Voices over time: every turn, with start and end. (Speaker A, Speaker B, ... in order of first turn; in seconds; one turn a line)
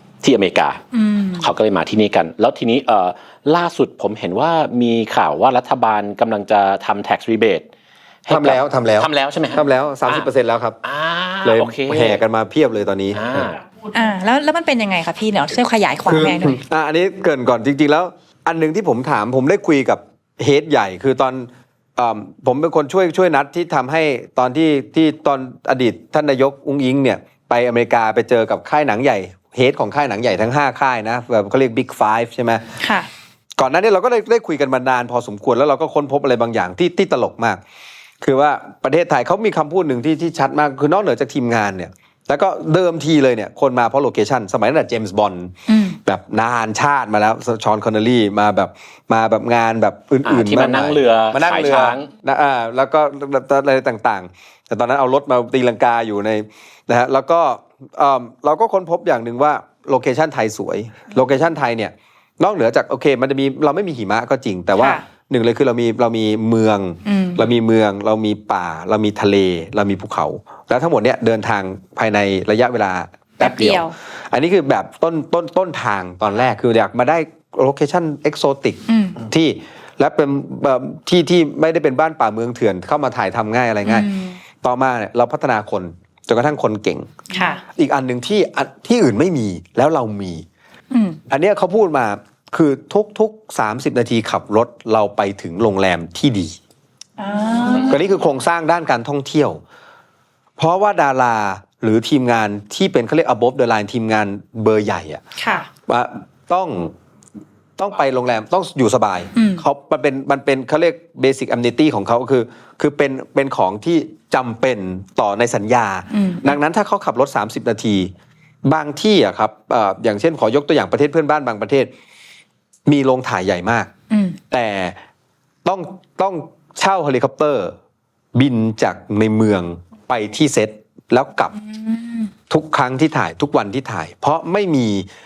Speaker A: 0.2-0.8
Speaker B: 0.9-1.5
Speaker A: 1.4-7.7
Speaker A: 8.2-10.3
Speaker C: 8.3-10.8
Speaker A: 10.8-12.2
Speaker C: 11.4-13.4
Speaker A: 13.1-13.6
Speaker B: 13.9-16.6
Speaker C: 16.1-32.6
Speaker B: 32.8-33.1
Speaker C: 33.6-37.6
Speaker C: 38.2-84.1
Speaker B: 45.7-46.0
Speaker A: 50.2-52.1
Speaker B: 64.8-65.0
Speaker B: 67.0-67.4
Speaker B: 73.4-73.9
Speaker B: 78.9-79.2
Speaker B: 83.8-84.4
Speaker C: 84.6-87.1
Speaker B: 87.3-87.6
Speaker C: 87.7-90.4
Speaker B: 90.9-91.2
Speaker C: 91.3-96.6
Speaker B: 97.2-98.0
Speaker C: 97.9-99.6
Speaker C: 100.6-105.2
Speaker B: 105.4-105.7
Speaker C: 105.9-106.9
Speaker C: 107.8-118.1
Speaker B: 109.3-109.6
Speaker B: 116.1-116.6
Speaker C: 118.6-121.9
Speaker C: 122.9-123.9
Speaker B: 124.1-124.4
Speaker C: 124.5-125.0
Speaker C: 125.6-127.7
Speaker C: 128.3-131.5
Speaker B: 131.6-132.3
Speaker C: 132.5-135.1